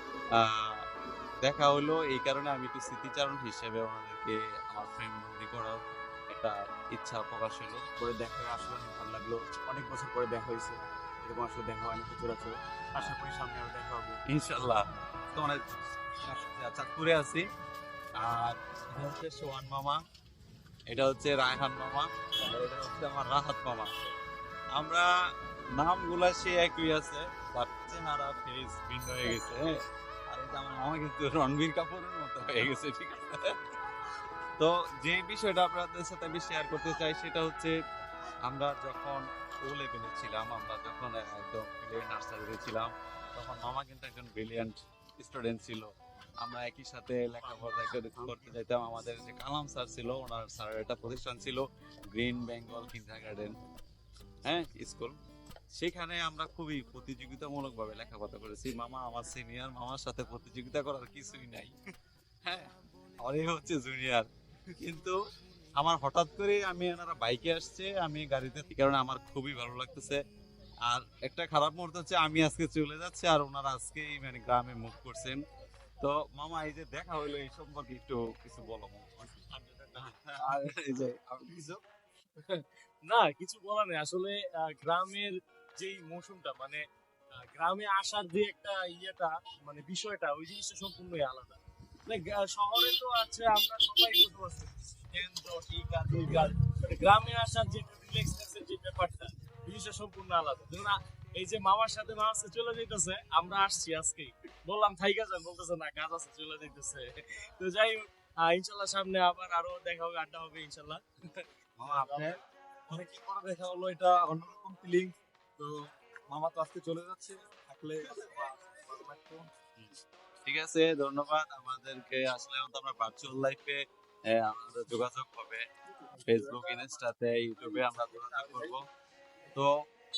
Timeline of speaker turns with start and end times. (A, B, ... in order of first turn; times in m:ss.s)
0:00.4-0:00.7 A
0:01.4-0:05.8 A
0:06.3-0:08.0 A
0:08.0-0:12.5 B
0:13.1-0:14.2 B
0:14.2-0:14.8 A
0:16.3-0:17.4 A
0:18.2-0:20.0 A
0:20.9-0:23.9 A
0:24.8-0:25.1 A
0:25.8-0:29.7 A
0:30.3-0:33.5 A
0:34.6-0:37.7 A
0:38.4-0:45.9 A
0:46.4-0:53.5 A
0:47.5-0:48.4 C
0:54.5-0:55.1 A
0:55.8-1:01.7 A
1:03.2-1:04.2 A
1:04.8-1:05.1 A
1:05.8-1:10.2 A
1:10.9-1:15.4 A
1:16.0-1:19.4 A
1:19.5-1:20.8 C
1:20.0-1:21.8 A
1:22.4-1:26.8 C
1:27.5-1:52.3 C
1:51.8-1:52.3 A
1:53.2-1:55.0 A
1:56.7-1:58.0 A
2:00.4-2:05.6 A
2:06.2-2:08.8 A
2:06.3-2:06.8 C